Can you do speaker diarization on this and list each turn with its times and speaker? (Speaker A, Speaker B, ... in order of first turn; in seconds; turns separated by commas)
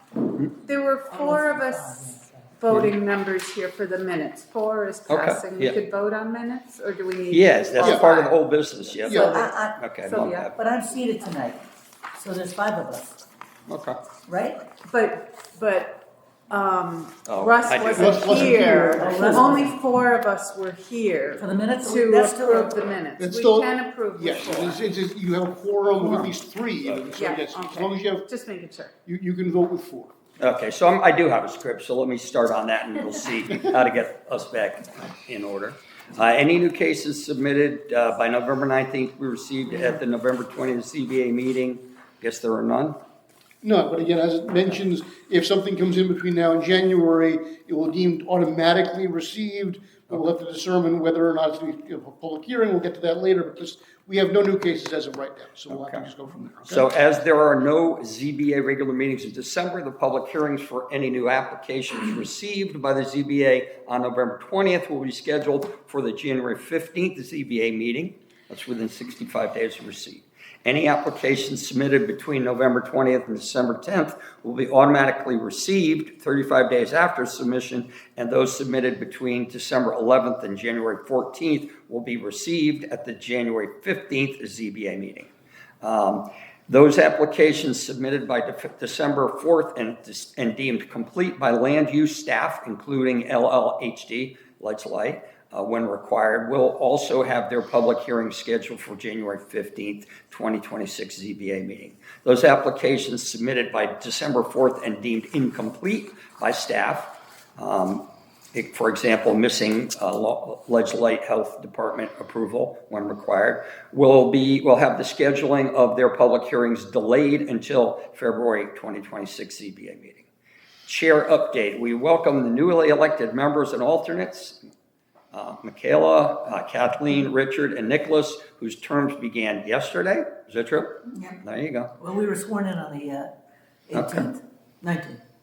Speaker A: 0.6-2.1, Speaker B: 1.1-2.6, Speaker A: 2.6-8.4, Speaker C: 5.1-5.8, Speaker C: 7.3-10.6, Speaker D: 7.8-8.1, Speaker A: 8.9-10.5, Speaker D: 9.0-9.4, Speaker B: 9.1-9.8, Speaker B: 10.5-11.6, Speaker B: 12.2-13.1, Speaker C: 13.7-14.0, Speaker B: 14.2-14.7, Speaker A: 14.9-24.8, Speaker C: 17.3-18.2, Speaker D: 17.9-19.6, Speaker B: 18.2-19.8, Speaker B: 21.4-22.8, Speaker D: 23.2-28.3, Speaker C: 24.5-24.7, Speaker C: 26.8-27.2, Speaker A: 27.1-28.9, Speaker D: 29.1-30.1, Speaker C: 30.4-43.0, Speaker D: 43.6-56.9, Speaker C: 55.7-56.1, Speaker C: 56.6-85.3, Speaker C: 85.8-120.3, Speaker C: 120.9-124.7, Speaker C: 125.3-131.9, Speaker B: 131.1-131.4, Speaker B: 132.0-133.3, Speaker B: 133.9-135.2, Speaker C: 133.9-134.3